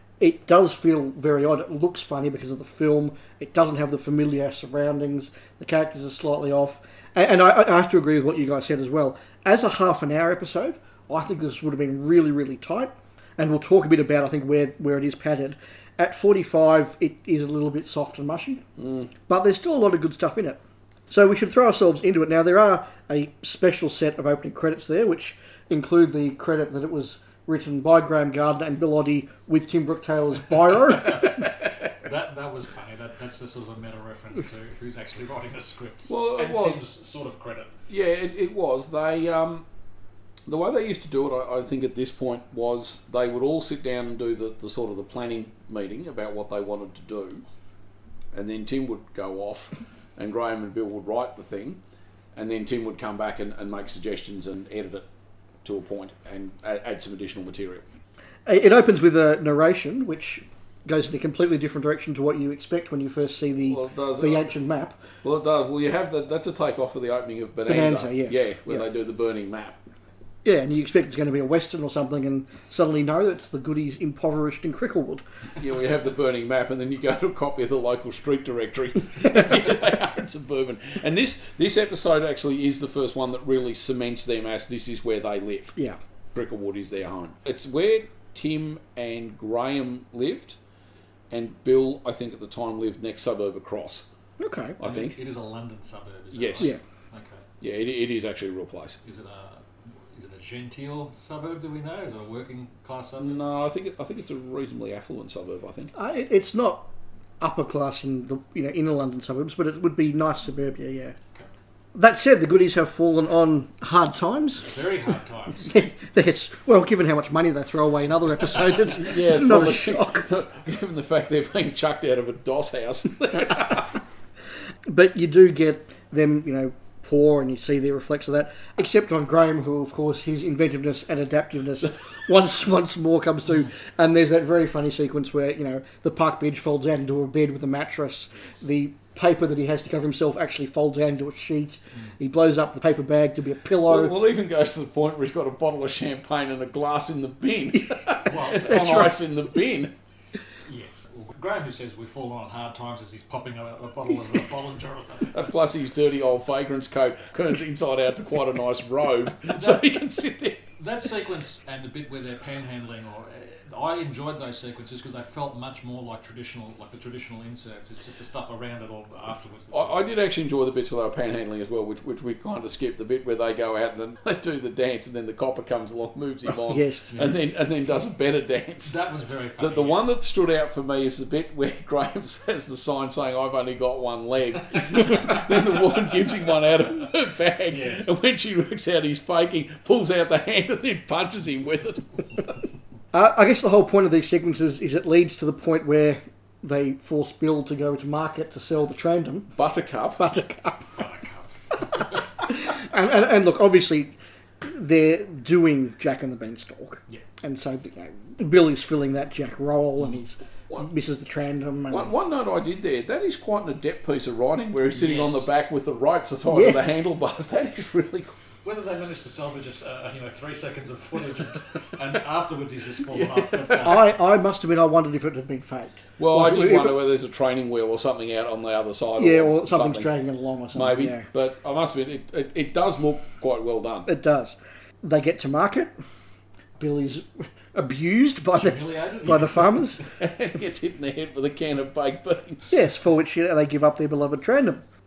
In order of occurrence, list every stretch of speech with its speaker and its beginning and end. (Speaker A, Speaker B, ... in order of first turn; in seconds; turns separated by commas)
Speaker A: 0.2-18.6, Speaker B: 18.8-19.1, Speaker A: 19.3-31.4, Speaker C: 30.9-37.7, Speaker B: 36.1-36.8, Speaker B: 37.9-39.6, Speaker B: 40.5-47.4, Speaker B: 48.3-51.8, Speaker B: 52.4-55.0, Speaker B: 55.6-57.8, Speaker A: 58.5-65.0, Speaker B: 63.6-64.5, Speaker B: 65.2-69.8, Speaker A: 67.7-68.8, Speaker A: 70.4-75.2, Speaker B: 75.6-85.8, Speaker B: 86.3-90.6, Speaker B: 91.3-94.1, Speaker A: 94.4-94.8, Speaker B: 94.8-95.2, Speaker C: 94.8-97.4, Speaker B: 96.3-96.7, Speaker B: 97.6-99.0, Speaker C: 99.0-103.4, Speaker B: 103.2-105.9, Speaker A: 105.9-106.9, Speaker A: 107.4-111.2, Speaker A: 111.9-114.7, Speaker C: 114.6-115.7, Speaker A: 115.6-120.2, Speaker B: 118.8-124.0, Speaker A: 124.9-144.2, Speaker B: 143.8-149.9, Speaker C: 148.2-148.9, Speaker A: 148.7-149.1, Speaker C: 150.7-155.5, Speaker B: 155.3-160.7, Speaker C: 159.5-159.9, Speaker C: 160.8-170.1, Speaker B: 169.7-178.9, Speaker A: 176.7-177.1, Speaker C: 177.1-177.4, Speaker C: 178.8-180.1, Speaker B: 179.6-192.4, Speaker C: 187.7-188.1, Speaker A: 193.1-199.5, Speaker B: 199.6-200.2, Speaker A: 200.2-200.9, Speaker C: 201.0-202.2, Speaker A: 202.4-212.1, Speaker B: 211.9-218.3, Speaker C: 214.9-215.5, Speaker A: 216.5-217.0, Speaker C: 218.6-224.1, Speaker B: 223.5-223.8, Speaker A: 223.8-227.0, Speaker B: 226.2-230.1, Speaker A: 229.2-231.2, Speaker B: 230.7-234.1, Speaker A: 234.1-235.9, Speaker A: 236.8-240.0, Speaker C: 238.5-240.0, Speaker B: 240.0-242.8, Speaker A: 242.7-244.8